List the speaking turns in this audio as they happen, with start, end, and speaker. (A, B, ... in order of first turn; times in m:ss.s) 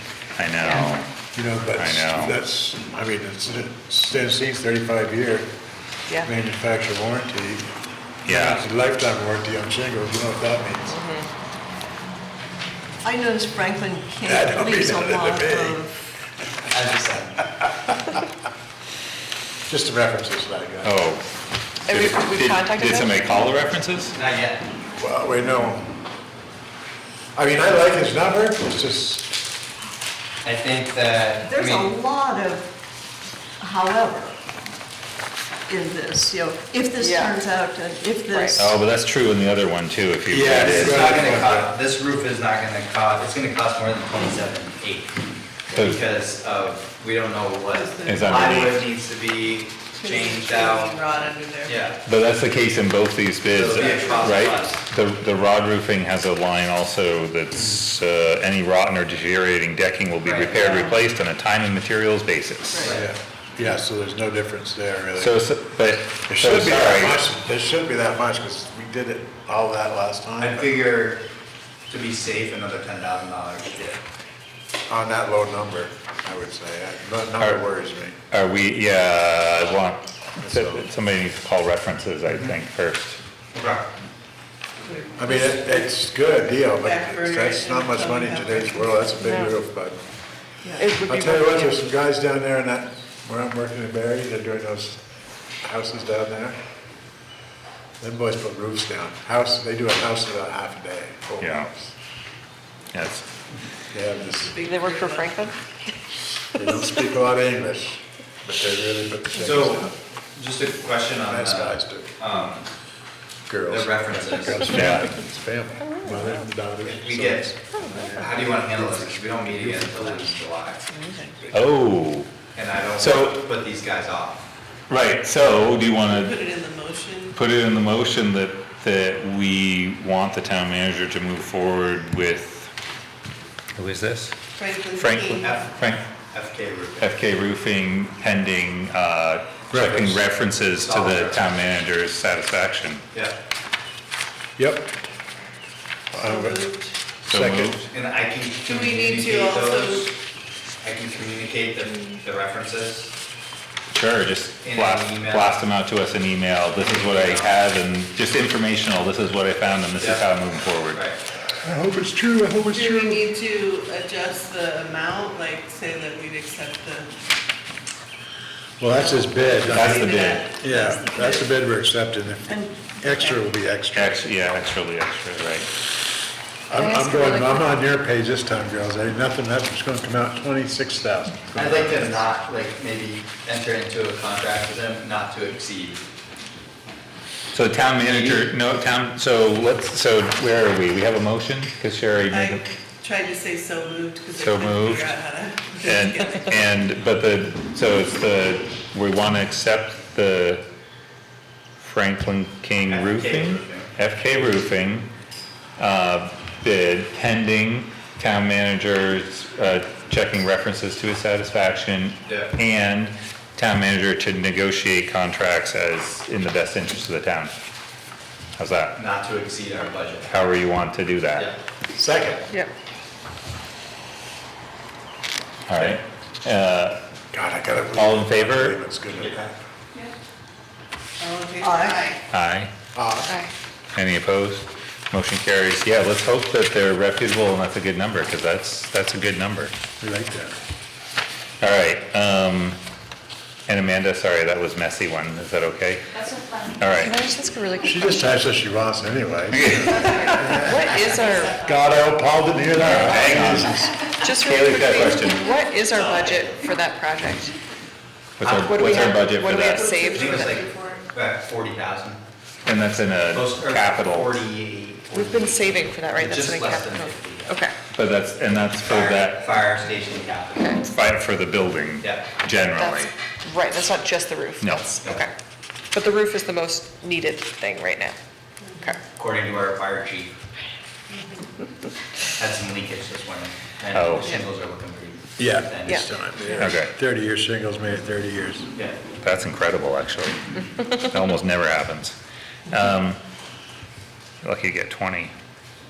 0:00.4-0:01.1 A
0:01.3-0:05.5 B
0:01.7-0:02.4 A
0:06.2-0:07.7 B
0:08.2-0:11.0 B
0:08.3-0:08.6 A
0:10.9-0:11.3 C
0:13.0-0:15.9 D
0:14.3-0:15.8 B
0:16.7-0:17.5 E
0:19.7-0:21.0 B
0:20.8-0:21.2 A
0:21.9-0:23.1 C
0:21.9-0:24.2 A
0:24.1-0:24.6 E
0:25.0-0:25.9 B
0:27.4-0:29.3 B
0:30.4-0:31.9 E
0:31.4-0:32.7 D
0:33.6-0:34.4 D
0:35.7-0:38.8 D
0:37.0-0:37.4 C
0:38.3-0:38.7 C
0:38.6-0:41.4 A
0:40.3-0:41.8 B
0:40.5-0:51.0 E
0:45.7-0:46.0 A
0:47.7-0:48.4 F
0:48.0-0:48.9 A
0:49.9-0:51.9 F
0:51.6-0:52.0 E
0:52.1-1:02.9 A
0:53.5-0:54.8 E
1:00.2-1:00.9 E
1:02.8-1:03.1 E
1:02.9-1:05.4 B
1:05.2-1:07.2 A
1:06.3-1:10.8 B
1:10.4-1:11.2 E
1:11.9-1:14.0 E
1:14.9-1:18.2 B
1:17.4-1:17.7 A
1:18.3-1:23.2 A
1:20.4-1:20.9 B
1:23.5-1:23.9 E
1:24.8-1:25.9 F
1:25.2-1:30.0 B
1:26.8-1:29.3 F
1:29.3-1:29.5 C
1:30.6-1:30.9 F
1:30.8-1:31.7 C
1:30.8-1:35.0 B
1:35.6-1:36.6 B
1:38.0-1:41.9 B
1:41.4-1:41.7 A
1:42.9-1:43.3 A
1:43.9-1:44.6 B
1:44.4-1:45.4 F
1:44.6-1:45.6 C
1:46.5-1:50.0 B
1:49.4-1:52.7 E
1:51.3-1:52.1 B
1:53.5-2:00.4 B
1:53.7-1:54.8 E
1:54.7-1:55.1 A
1:55.9-1:56.3 C
1:56.8-2:00.9 E
1:57.8-1:58.1 C
2:01.5-2:02.3 A
2:02.5-2:04.5 E
2:02.9-2:03.4 A
2:04.9-2:06.4 A
2:06.0-2:07.4 F
2:07.3-2:12.7 A
2:13.8-2:14.4 A
2:14.6-2:15.6 F
2:14.9-2:16.1 A
2:15.4-2:15.7 E
2:16.3-2:17.1 E
2:17.0-2:23.0 A
2:19.7-2:20.3 B
2:20.8-2:21.6 E
2:24.6-2:24.9 B
2:26.1-2:27.8 B
2:26.2-2:26.9 F
2:27.3-2:27.9 A
2:27.9-2:30.2 E
2:28.6-2:30.1 F
2:30.8-2:33.1 E
2:33.9-2:41.0 A
2:34.6-2:35.6 E
2:36.8-2:37.6 E
2:40.0-2:40.3 E
2:40.9-2:41.2 E
2:41.5-2:43.3 B
2:42.7-2:47.1 F
2:48.8-2:54.6 B
2:48.9-2:51.5 F
2:49.7-2:50.5 A
2:52.5-2:52.9 D
2:53.1-2:53.4 F
2:54.0-2:55.7 A
2:56.7-3:02.2 B
2:56.7-2:57.8 C
3:01.6-3:06.0 E
3:07.5-3:12.6 A
3:08.0-3:08.5 E
3:12.3-3:16.6 F
3:14.4-3:15.1 A
3:15.8-3:20.6 A
3:21.8-3:25.1 A
3:22.9-3:23.9 E
3:25.8-3:37.5 A
3:32.3-3:32.5 E
3:38.6-3:39.0 A
3:39.0-3:40.3 E
3:40.3-3:41.5 A
3:42.0-3:42.4 B
3:45.7-3:47.0 A
3:47.3-3:49.5 B
3:47.9-3:48.8 A
3:49.1-3:49.5 E
3:51.2-3:52.2 F
3:51.6-3:52.1 D
3:52.3-3:52.7 A
3:53.0-3:53.4 B
3:54.0-3:59.7 A
4:00.0-4:00.5 B
4:01.6-4:02.8 A
4:03.7-4:06.1 A
4:06.8-4:07.2 A
4:06.9-4:08.4 C
4:07.8-4:10.8 B
4:09.5-4:10.6 A
4:10.5-4:11.6 C
4:11.4-4:13.9 B
4:12.8-4:13.8 A
4:14.2-4:17.5 C
4:14.4-4:15.5 A
4:15.9-4:16.6 E
4:18.4-4:20.0 A
4:18.4-4:19.4 E
4:18.5-4:20.6 C
4:19.6-4:21.0 F
4:20.0-4:22.2 E
4:22.7-4:24.4 A
4:23.3-4:27.6 E
4:25.1-4:27.8 C
4:27.9-4:29.6 A
4:28.8-4:30.8 E
4:30.6-4:30.9 C
4:30.9-4:33.1 A
4:32.0-4:32.3 E
4:32.8-4:35.3 C
4:34.6-4:34.9 A
4:35.9-4:38.2 C
4:38.8-4:39.0 C
4:39.2-4:40.3 E
4:41.1-4:41.4 F
4:42.4-4:46.4 E
4:43.9-4:44.4 A
4:45.4-4:48.7 B
4:45.8-4:46.6 C
4:46.6-4:46.9 A
4:48.8-4:49.0 E
4:49.2-4:52.2 A
4:52.7-4:53.2 A
4:54.4-4:55.3 A